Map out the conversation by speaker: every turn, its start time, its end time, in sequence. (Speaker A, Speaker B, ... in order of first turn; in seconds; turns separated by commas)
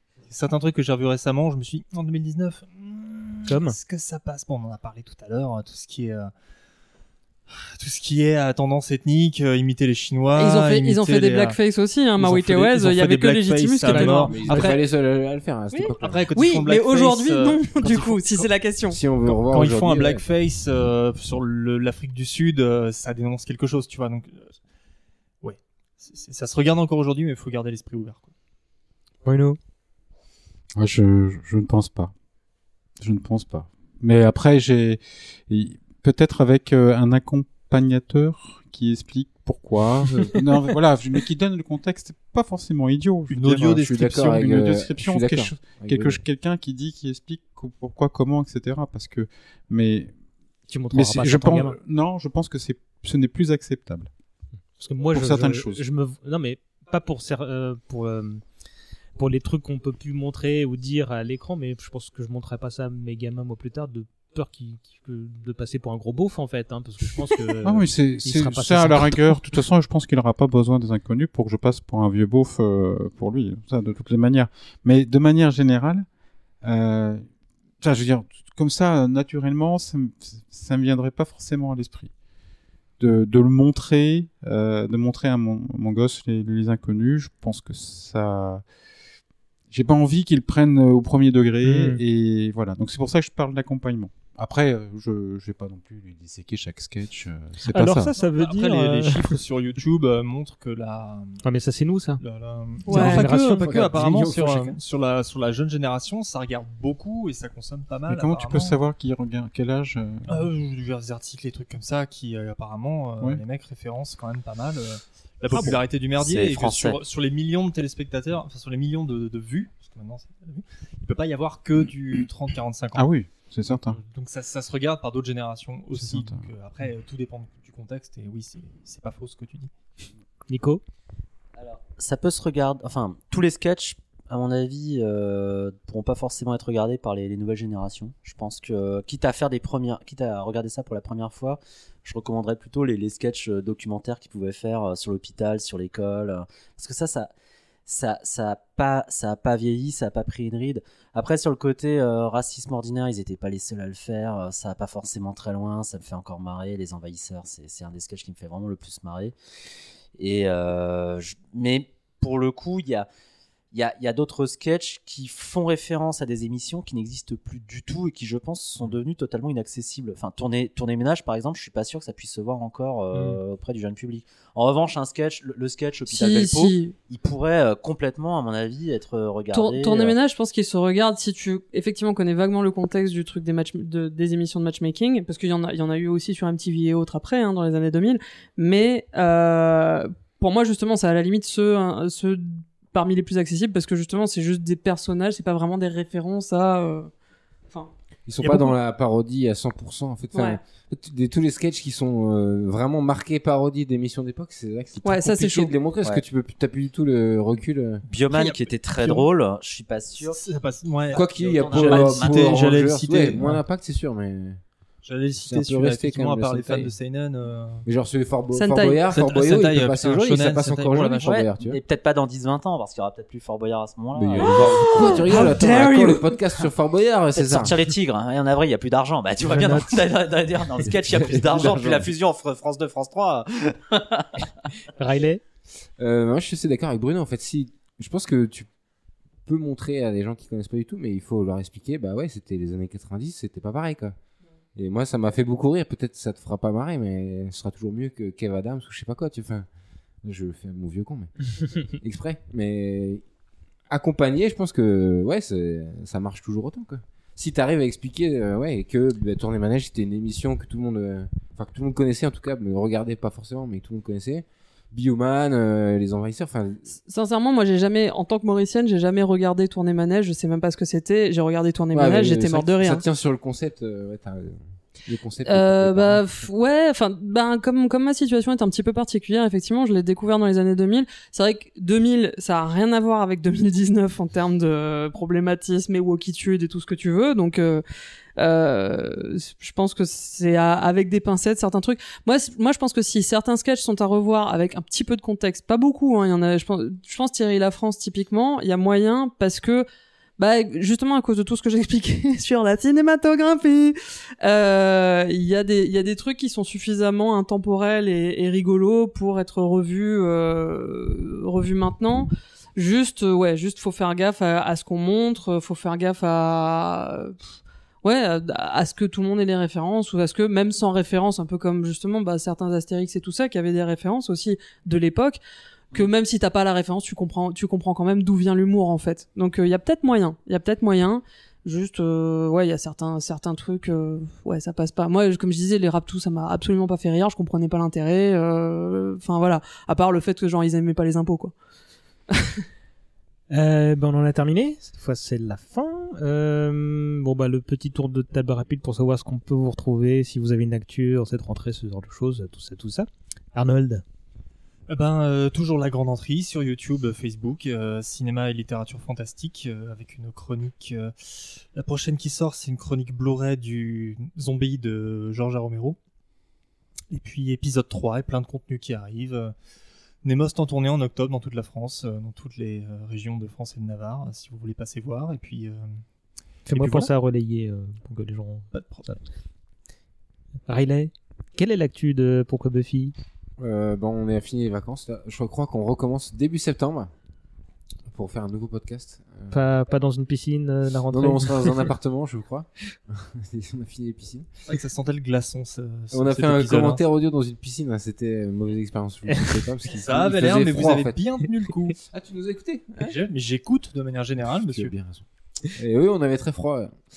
Speaker A: 0.3-6.3, Speaker B: 3.5-3.8, Speaker A: 7.5-11.6, Speaker C: 10.4-14.7, Speaker A: 12.2-14.8, Speaker B: 13.9-14.7, Speaker D: 14.3-16.3, Speaker C: 15.7-19.0, Speaker A: 16.0-18.5, Speaker D: 18.9-20.2, Speaker A: 19.2-24.6, Speaker A: 25.4-28.3, Speaker B: 29.2-29.6, Speaker E: 30.8-32.1, Speaker E: 33.0-50.1, Speaker A: 43.3-44.6, Speaker D: 43.7-46.2, Speaker B: 50.7-51.8, Speaker E: 50.9-54.1, Speaker B: 54.8-58.4, Speaker E: 55.1-55.9, Speaker B: 59.2-69.4, Speaker E: 67.6-76.1, Speaker E: 76.6-77.3, Speaker E: 77.8-82.1, Speaker E: 83.0-88.6, Speaker E: 89.7-98.1, Speaker B: 91.6-92.0, Speaker B: 97.7-99.3, Speaker A: 98.2-101.4, Speaker B: 101.4-102.2, Speaker A: 102.2-108.8, Speaker C: 102.9-103.3, Speaker B: 102.9-104.1, Speaker D: 103.6-104.8, Speaker E: 108.1-110.5, Speaker A: 110.3-123.1, Speaker F: 115.6-117.0, Speaker E: 123.0-124.0, Speaker A: 123.7-129.7, Speaker E: 125.9-126.5, Speaker B: 130.5-130.8, Speaker F: 131.6-147.3, Speaker F: 147.9-159.3, Speaker F: 160.2-163.1, Speaker F: 163.7-180.2, Speaker C: 176.1-176.9, Speaker C: 179.5-197.1, Speaker D: 198.3-208.0, Speaker C: 200.3-200.6, Speaker C: 205.0-205.8, Speaker F: 208.1-210.4, Speaker A: 208.3-209.3, Speaker A: 210.3-213.6, Speaker F: 211.1-212.8, Speaker D: 211.1-214.6, Speaker A: 215.0-217.9, Speaker D: 215.4-216.9, Speaker D: 217.8-221.8, Speaker C: 218.5-219.1, Speaker A: 219.1-221.4, Speaker F: 221.2-225.5, Speaker D: 224.1-227.8, Speaker C: 224.7-226.4, Speaker F: 227.3-234.5, Speaker B: 229.4-230.1, Speaker D: 231.1-232.1, Speaker B: 235.0-235.4, Speaker D: 236.0-238.7, Speaker D: 239.4-244.2, Speaker D: 244.8-249.7, Speaker D: 250.2-253.2, Speaker D: 253.9-266.8, Speaker C: 267.0-273.0, Speaker D: 271.9-276.4, Speaker C: 275.4-287.8, Speaker C: 288.4-299.9, Speaker C: 300.4-317.5, Speaker C: 318.0-325.4, Speaker C: 325.9-341.5, Speaker C: 342.3-342.6, Speaker B: 343.5-354.0, Speaker A: 354.9-366.0, Speaker A: 367.1-369.5, Speaker A: 370.2-376.0, Speaker B: 376.7-379.2, Speaker A: 376.7-377.1, Speaker A: 378.7-379.1, Speaker B: 380.7-383.1, Speaker D: 383.6-387.1, Speaker D: 388.1-389.6, Speaker B: 389.5-391.9, Speaker D: 391.1-394.5, Speaker A: 394.7-397.0, Speaker D: 396.1-401.2, Speaker A: 399.9-402.0, Speaker D: 402.1-402.9, Speaker A: 403.0-404.9, Speaker D: 404.4-407.0